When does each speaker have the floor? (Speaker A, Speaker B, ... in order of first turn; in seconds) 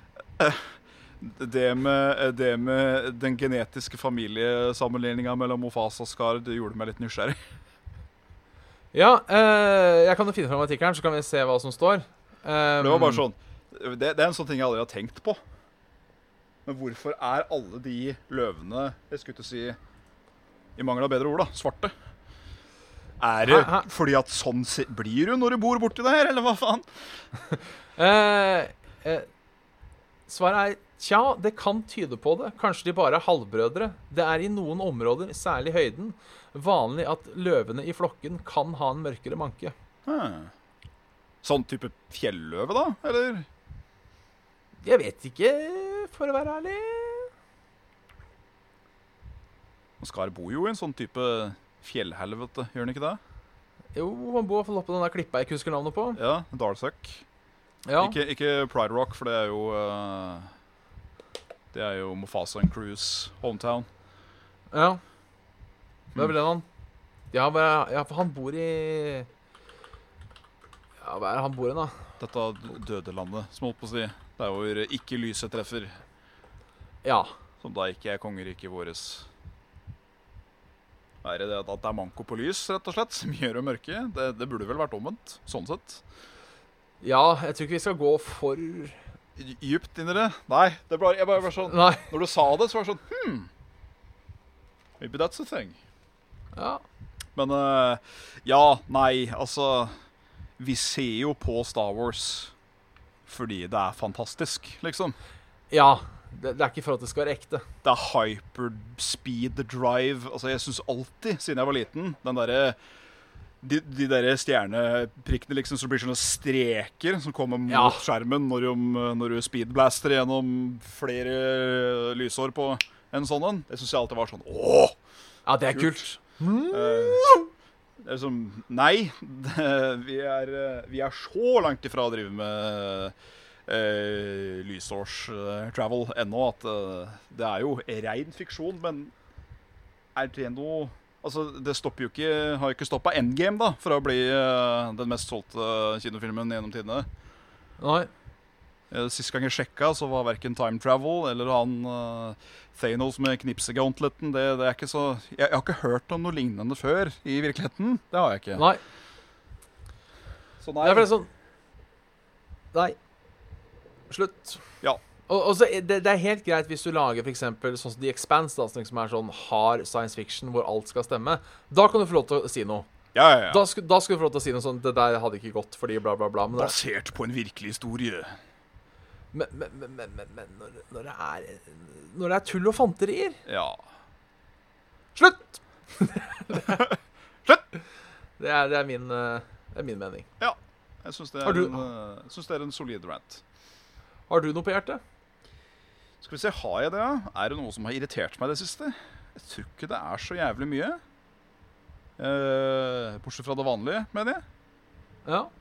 Speaker A: 0.4-7.4, 12.8-15.4, 16.6-19.8, 20.8-21.9, 23.2-26.9, 40.0-40.5, 41.4-43.5, 50.0-53.2, 56.1-57.2, 58.0-60.5, 61.7-63.9, 72.2-76.0, 77.6-79.3, 81.2-86.0, 89.4-93.5, 95.0-95.8, 97.3-99.9, 100.6-102.5, 103.2-105.2, 107.8-112.8, 113.6-125.0, 126.7-127.3, 128.0-133.1, 133.7-139.1, 140.1-147.1, 148.9-158.6, 160.6-161.1, 173.1-173.6, 176.5-178.3, 183.4-183.8, 190.4-193.4, 196.2-201.0, 202.2-204.4
Speaker B: 8.9-13.2, 23.4-23.9, 28.0-29.3, 30.3-39.7, 44.8-47.3, 53.9-56.2, 57.9-58.2, 64.7-65.0, 66.1-66.7, 67.3-69.3, 71.0-72.0, 77.0-77.3, 87.0-89.0, 91.7-92.1, 96.5-96.8, 105.7-107.6, 117.7-118.0, 125.5-127.5, 147.8-148.1, 158.5-158.8, 160.8-161.3, 164.1-164.6, 165.3-172.9, 173.5-176.8, 179.3-183.4, 185.1-186.9, 188.4-190.3, 191.4-191.9, 194.3-195.0, 205.2-205.5